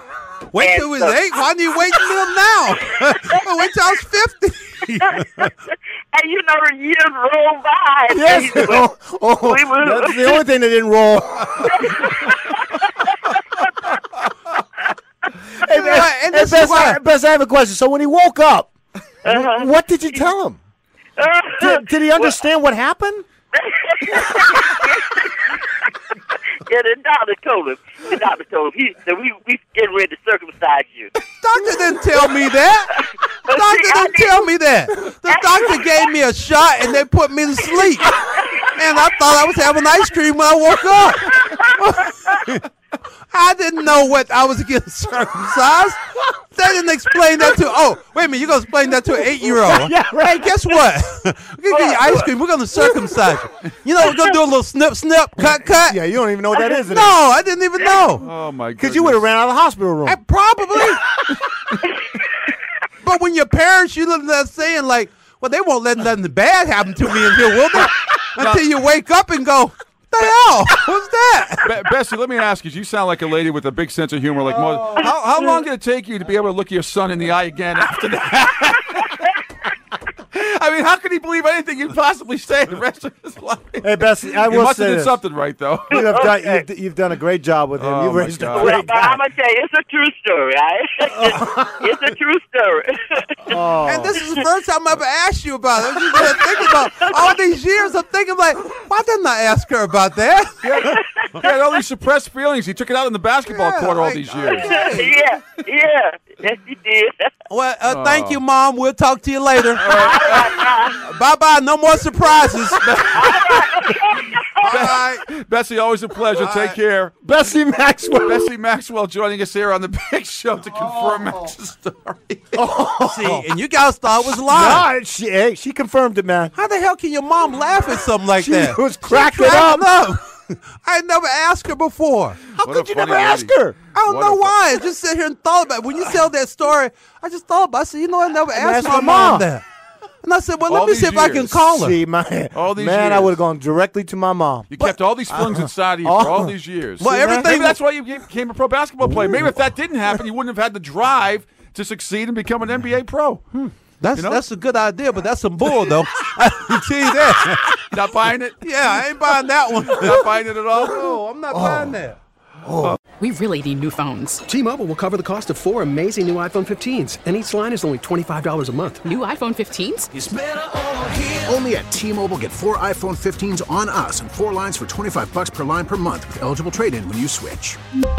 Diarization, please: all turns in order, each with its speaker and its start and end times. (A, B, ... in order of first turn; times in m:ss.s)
0:00.5-0:05.5 A
0:00.6-0:01.2 B
0:02.9-0:03.4 B
0:05.0-0:10.4 B
0:08.1-0:12.0 C
0:11.7-0:13.7 B
0:15.6-0:18.7 C
0:15.7-0:17.0 A
0:19.2-0:19.7 B
0:19.3-0:20.6 C
0:21.2-0:22.3 B
0:21.6-0:23.2 C
0:23.5-0:31.1 B
0:31.4-0:33.0 A
0:33.0-0:34.5 B
0:33.5-0:38.2 A
0:35.3-0:36.1 B
0:37.8-0:38.7 B
0:38.7-0:42.6 A
0:41.4-0:42.3 B
0:43.3-0:46.0 A
0:46.5-0:56.0 A
0:49.5-0:50.5 C
0:51.7-0:52.3 B
0:55.8-0:57.2 C
0:56.8-0:58.2 A
0:58.2-0:59.3 D
0:58.8-1:00.2 C
1:00.0-1:01.0 A
1:01.8-1:02.2 B
1:03.0-1:11.7 A
1:08.4-1:08.7 D
1:11.6-1:19.4 D
1:20.3-1:26.1 D
1:23.8-1:25.2 C
1:25.9-1:29.2 C
1:25.9-1:26.6 B
1:27.8-1:28.9 D
1:28.5-1:33.6 B
1:31.2-1:31.8 C
1:33.5-1:34.2 C
1:33.8-1:40.9 A
1:36.2-1:37.4 B
1:40.6-1:44.7 D
1:40.8-1:41.5 B
1:43.5-1:45.1 A
1:44.4-1:47.3 B
1:47.5-1:50.0 A
1:47.9-1:48.4 D
1:49.8-1:50.6 D
1:49.9-1:51.0 B
1:51.0-1:52.8 A
1:52.8-1:53.8 D
1:53.1-1:55.0 B
1:54.6-1:57.2 D
1:56.4-1:58.5 C
1:58.1-2:02.6 D
2:00.8-2:01.5 C
2:02.5-2:03.5 C
2:03.0-2:04.9 A
2:04.4-2:06.6 C
2:06.6-2:12.4 A
2:08.4-2:10.0 C
2:12.6-2:13.8 C
2:12.6-2:14.6 D
2:14.0-2:19.6 A
2:18.5-2:19.5 C
2:20.2-2:22.0 A
2:20.7-2:21.6 D
2:21.5-2:27.6 C
2:22.5-2:23.4 D
2:24.7-2:33.4 D
2:27.0-2:27.8 A
2:29.0-2:29.6 C
2:33.6-2:37.8 A
2:34.2-2:34.4 D
2:37.6-2:38.6 D
2:38.6-2:42.2 A
2:39.8-2:41.2 D
2:41.5-2:42.0 C
2:42.6-2:43.0 C
2:43.2-2:44.5 E
2:44.5-2:49.0 F
2:49.0-2:50.1 E
2:51.0-2:57.8 G